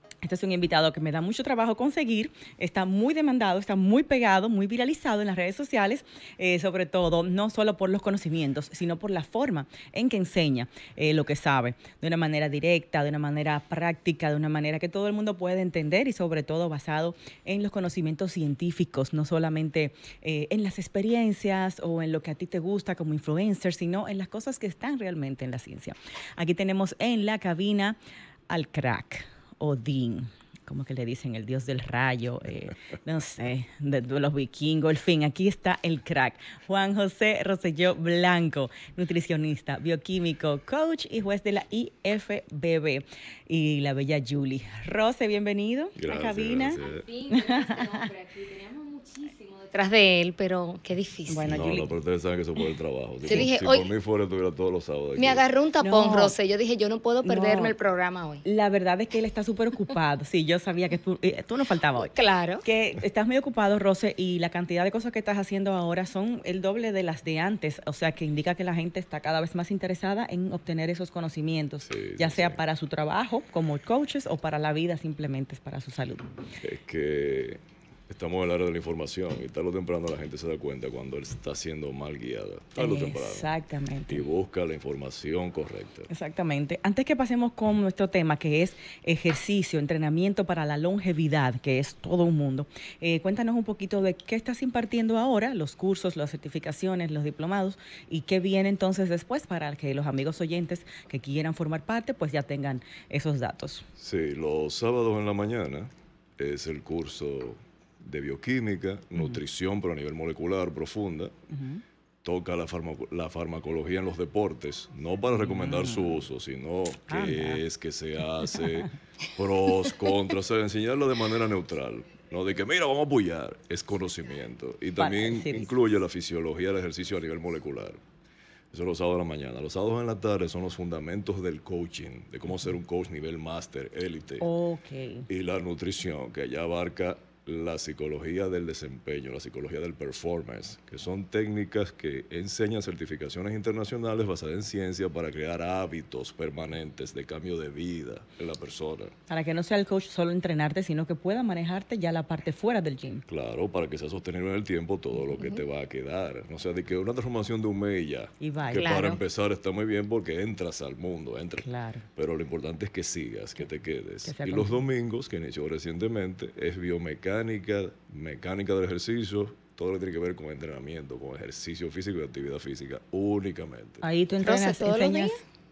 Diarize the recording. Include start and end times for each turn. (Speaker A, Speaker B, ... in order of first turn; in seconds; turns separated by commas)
Speaker A: 0.2-28.0, Speaker A: 28.5-48.1, Speaker B: 46.0-47.1, Speaker C: 48.0-51.6, Speaker A: 51.3-51.9, Speaker B: 51.5-55.5, Speaker C: 53.2-53.9, Speaker C: 55.2-58.4, Speaker A: 55.8-56.4, Speaker A: 57.2-57.7, Speaker A: 58.4-76.3, Speaker C: 62.0-62.6, Speaker B: 71.8-72.6, Speaker B: 76.6-83.5, Speaker A: 82.8-84.3, Speaker B: 84.1-86.1, Speaker A: 86.1-103.8, Speaker B: 104.0-111.3, Speaker A: 111.5-111.8, Speaker B: 112.2-128.0, Speaker A: 115.4-116.2, Speaker A: 117.1-117.6, Speaker A: 125.0-125.7, Speaker B: 128.7-134.5, Speaker A: 134.4-135.3, Speaker B: 135.3-149.1, Speaker A: 149.3-153.2, Speaker B: 153.3-174.1, Speaker A: 158.4-159.0, Speaker C: 158.7-159.2, Speaker A: 161.6-162.0, Speaker A: 164.2-164.8, Speaker A: 174.0-175.4, Speaker C: 174.4-175.4